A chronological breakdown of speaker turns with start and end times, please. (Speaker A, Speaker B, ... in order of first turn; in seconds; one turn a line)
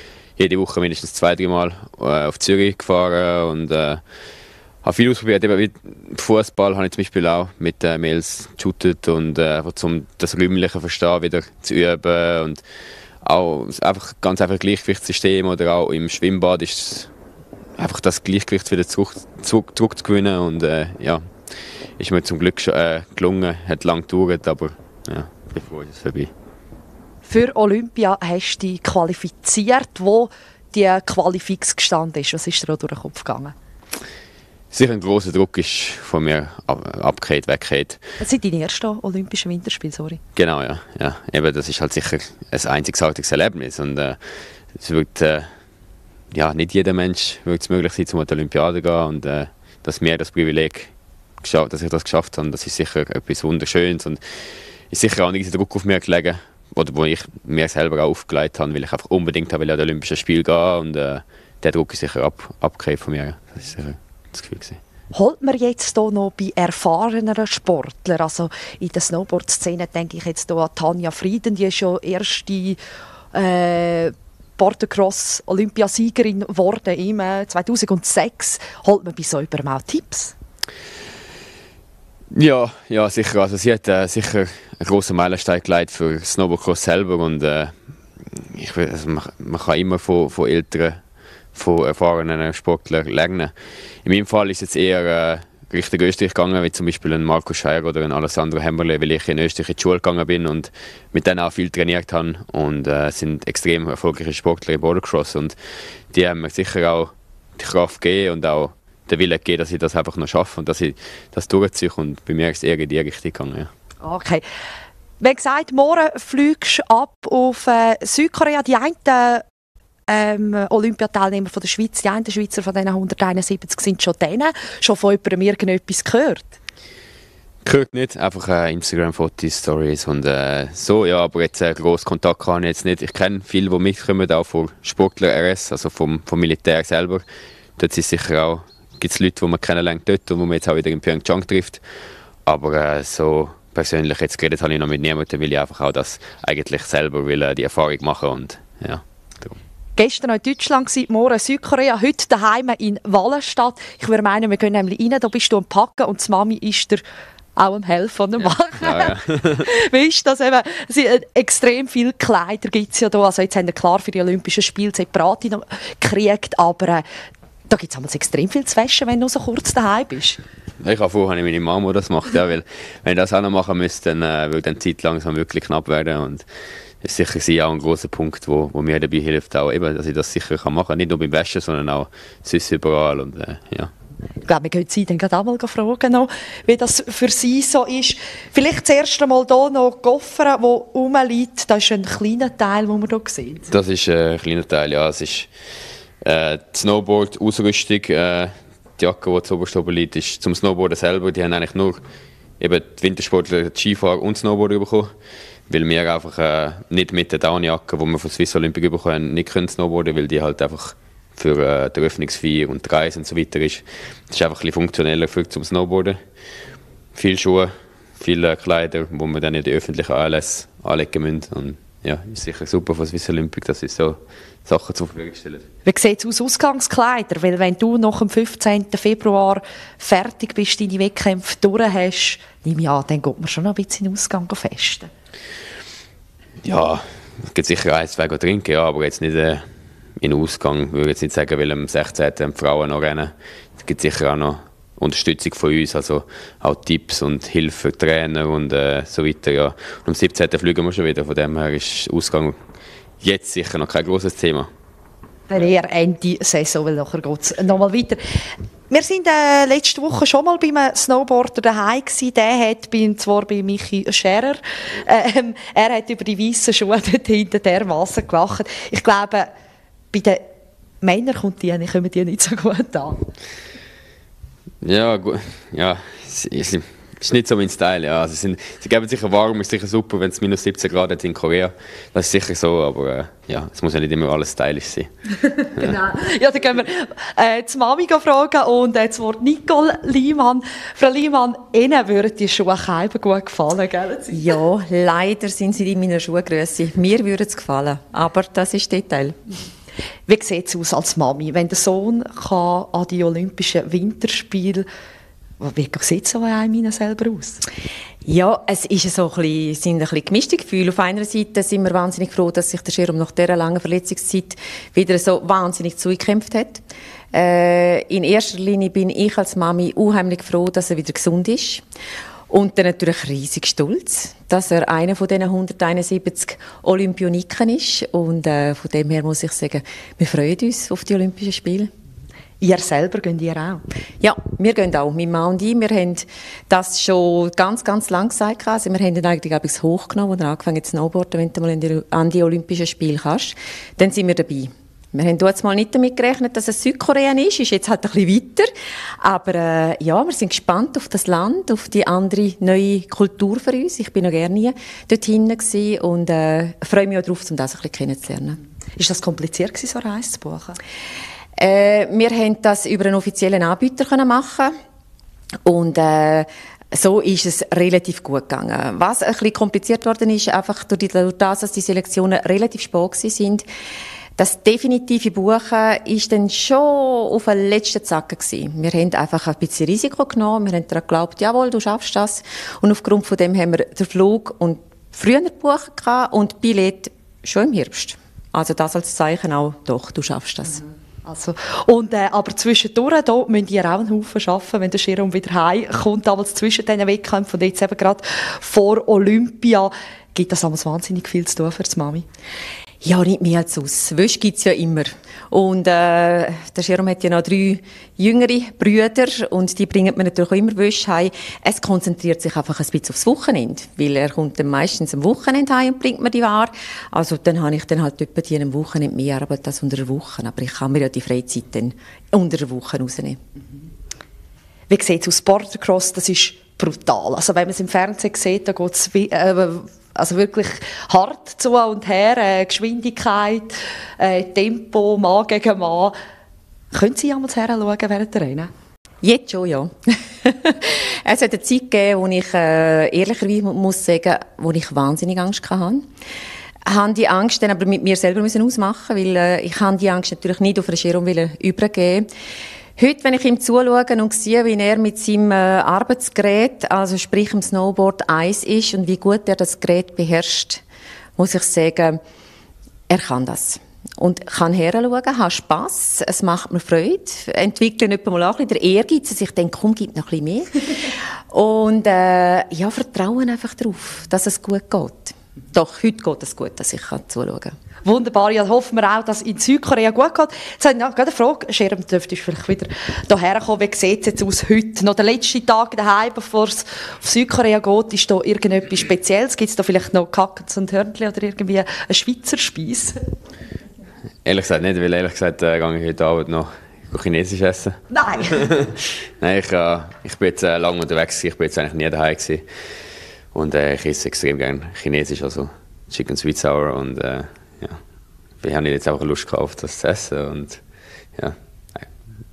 Speaker A: 0.4-4.0
Speaker A: 4.8-12.6
Speaker A: 13.2-17.1
Speaker A: 17.8-21.2
Speaker A: 22.0-26.3
Speaker B: 27.2-33.5
Speaker A: 34.7-38.0
Speaker B: 38.2-40.2
Speaker A: 40.4-44.2
Speaker A: 44.8-45.5
Speaker A: 46.3-54.2
Speaker A: 54.9-64.8
Speaker B: 65.1-72.8
Speaker B: 73.3-80.3
Speaker A: 82.3-87.7
Speaker A: 88.3-91.0
Speaker A: 91.5-93.5
Speaker A: 94.0-105.5
Speaker A: 106.1-113.7
Speaker B: 114.0-114.4
Speaker B: 115.2-119.4
Speaker B: 120.1-126.5
Speaker A: 127.6-137.2
Speaker A: 137.8-141.8
Speaker A: 142.4-149.6
Speaker B: 150.0-157.0
Speaker B: 157.6-167.0
Speaker A: 158.8-159.6
Speaker B: 167.7-170.4
Speaker A: 170.8-176.4
Speaker A: 177.0-183.9
Speaker B: 184.4-193.7
Speaker A: 193.7-195.5
Speaker A: 196.2-202.0
Speaker A: 202.6-205.1
Speaker A: 205.7-216.2
Speaker A: 217.1-225.6
Speaker B: 225.8-235.1
Speaker A: 236.6-239.6
Speaker A: 240.2-252.6
Speaker A: 253.2-254.7
Speaker B: 255.5-258.2
Speaker B: 258.9-269.5
Speaker B: 270.1-270.4
Speaker B: 271.0-273.2
Speaker A: 274.8-285.9
Speaker B: 285.6-294.5
Speaker C: 294.3-299.4
Speaker B: 300.3-304.9
Speaker B: 305.6-307.6
Speaker C: 308.2-321.8
Speaker C: 322.5-331.9
Speaker B: 332.6-333.8
Speaker C: 334.2-348.7
Speaker C: 349.2-358.6
Speaker B: 359.0-360.8
Speaker C: 361.6-364.7
Speaker C: 365.6-373.6
Speaker C: 374.4-390.8
Speaker B: 391.2-402.2
Speaker C: 403.0-423.4
Speaker B: 424.9-436.1
Speaker B: 436.9-438.7
Speaker C: 439.2-446.1
Speaker C: 446.9-452.3
Speaker C: 453.0-460.8
Speaker C: 461.4-462.2
Speaker C: 463.1-477.7
Speaker B: 478.0-493.1
Speaker A: 494.4-498.0
Speaker B: 498.1-498.7
Speaker A: 498.6-502.6
Speaker A: 503.5-508.0
Speaker A: 508.6-510.8
Speaker A: 511.4-512.1